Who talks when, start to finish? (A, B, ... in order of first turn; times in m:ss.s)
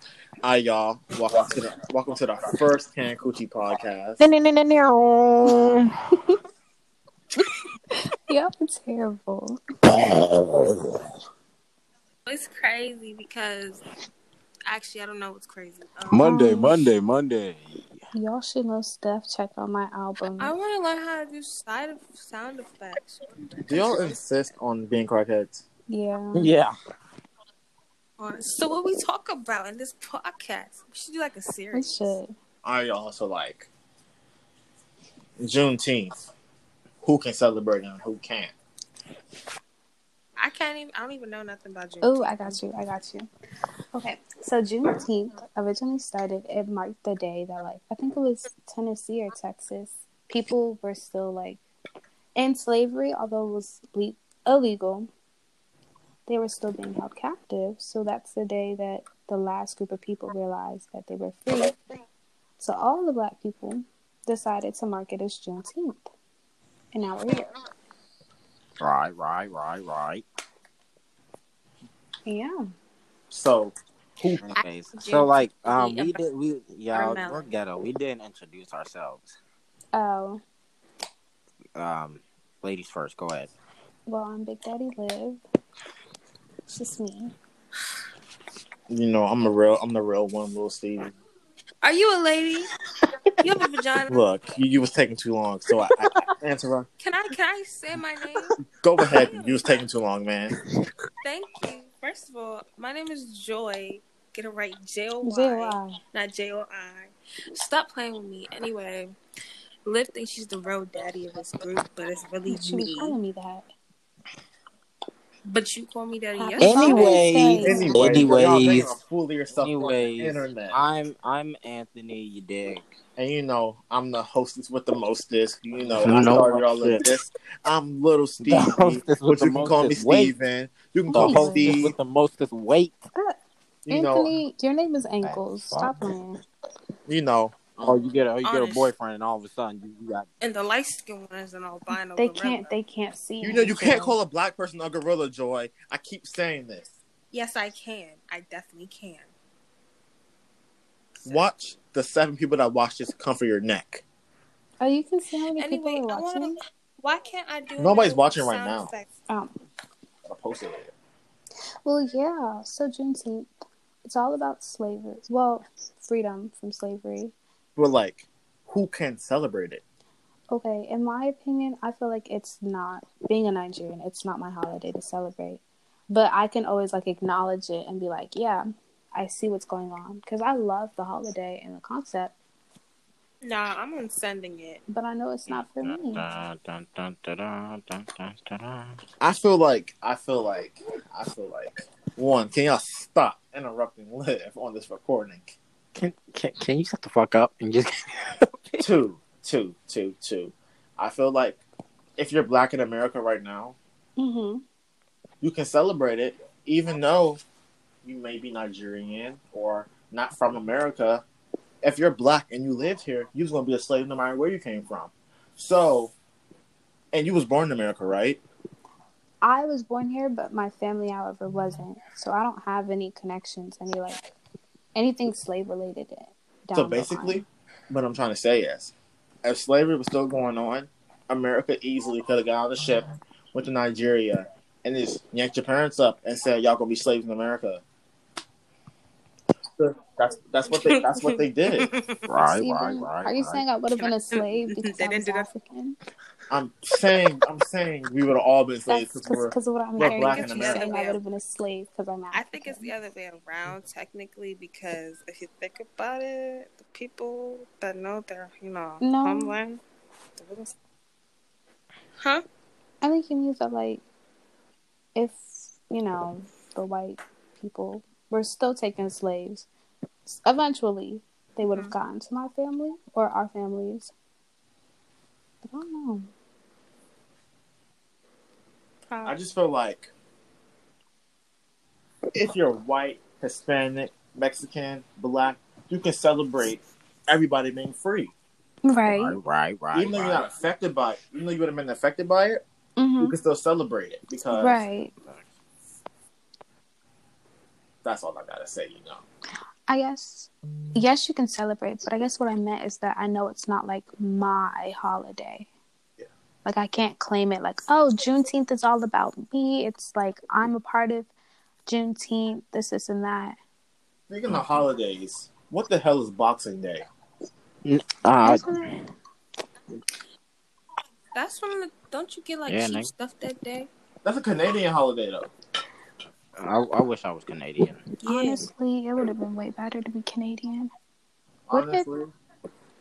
0:00.4-0:04.2 A
0:04.2-0:05.9 B
0:08.0-0:09.6 C
0:09.9-0:10.9 B
0:12.3-0:13.8 D
0:14.7-0:16.3 D
0:16.1-0:18.0 B
0:16.2-0:16.8 C
0:18.1-0:20.6 C
0:20.4-0:24.2 D
0:23.7-0:25.6 A
0:25.9-0:26.5 C
0:26.4-0:26.7 B
0:28.2-0:32.2 D
0:31.7-0:32.3 C
0:32.6-0:33.7 A
0:35.4-0:36.3 A
0:37.0-0:38.5 A
0:40.4-0:42.6 D
0:42.0-0:43.3 C
0:43.9-0:51.6 C
0:52.4-0:55.1 C
0:56.3-1:01.8 C
1:02.6-1:06.1 C
1:06.9-1:07.5 C
1:08.8-1:10.2 B
1:12.3-1:12.6 C
1:13.3-1:14.5 A
1:14.4-1:19.4 B
1:14.6-1:16.2 D
1:16.9-1:17.5 D
1:19.9-1:20.4 C
1:21.8-1:23.5 B
1:24.1-1:25.4 C
1:26.7-1:27.3 C
1:28.9-1:31.1 A
1:31.8-1:32.7 D
1:33.4-1:34.2 D
1:34.1-1:36.9 A
1:37.0-1:38.6 D
1:38.8-1:40.6 A
1:39.1-1:39.6 D
1:41.2-1:49.2 D
1:45.2-1:46.0 C
1:49.9-1:53.2 D
1:52.5-1:53.7 C
1:55.5-1:58.1 D
1:56.4-1:58.3 C
1:56.6-1:59.0 B
1:57.6-2:00.8 A
1:59.5-2:02.9 B
2:03.2-2:11.9 A
2:05.8-2:07.1 B
2:08.4-2:10.3 B
2:11.1-2:11.8 C
2:11.1-2:13.0 B
2:13.2-2:16.4 C
2:13.9-2:14.3 A
2:15.2-2:16.1 B
2:17.1-2:18.0 A
2:17.8-2:20.3 B
2:18.4-2:18.9 D
2:20.4-2:22.7 D
2:22.2-2:24.2 C
2:23.4-2:26.9 A
2:27.3-2:29.3 D
2:31.2-2:34.0 A
2:34.8-2:36.6 C
2:35.6-2:39.1 D
2:37.8-2:38.9 A
2:40.3-2:40.9 A
2:41.8-2:43.5 C
2:44.0-2:47.3 C
2:47.8-2:49.8 A
2:50.5-3:02.4 C
3:03.4-3:04.8 D
3:04.9-3:06.3 C
3:05.5-3:09.0 B
3:09.2-3:15.6 A
3:16.0-3:18.9 B
3:18.8-3:21.6 A
3:22.2-3:23.8 A
3:24.2-3:24.6 C
3:25.4-3:27.4 A
3:28.0-3:31.2 A
3:31.8-3:36.1 A
3:37.1-3:38.4 A
3:39.4-3:44.3 C
3:45.0-3:47.4 C
3:46.7-3:48.9 A
3:49.4-3:57.8 A
3:59.8-4:01.9 A
4:00.7-4:02.2 D
4:02.3-4:03.6 B
4:02.5-4:06.0 C
4:04.0-4:05.5 D
4:06.5-4:10.9 A
4:08.9-4:12.9 C
4:10.0-4:11.2 D
4:12.3-4:19.8 D
4:19.0-4:19.6 C
4:20.4-4:20.7 D
4:23.0-4:24.0 C
4:25.2-4:29.7 C
4:30.3-4:34.1 C
4:35.6-4:36.3 C
4:39.1-4:39.4 D
4:39.2-4:40.1 A
4:42.3-4:48.3 A
4:48.8-4:49.4 C
4:49.1-4:50.5 B
4:49.9-4:52.6 A
4:53.0-4:53.4 C
4:53.2-4:54.8 A
4:54.5-4:55.1 C
4:55.2-4:55.5 B
4:58.0-4:59.2 A
4:59.9-5:05.7 C
5:06.6-5:11.3 C
5:11.9-5:13.6 C
5:14.3-5:17.1 A
5:14.5-5:14.9 B
5:17.8-5:18.7 B
5:18.4-5:19.0 C
5:21.3-5:23.9 D
5:22.7-5:23.1 B
5:24.2-5:25.5 A
5:26.6-5:28.0 B
5:28.2-5:28.7 D
5:28.3-5:30.9 C
5:31.7-5:32.3 A
5:31.7-5:32.1 C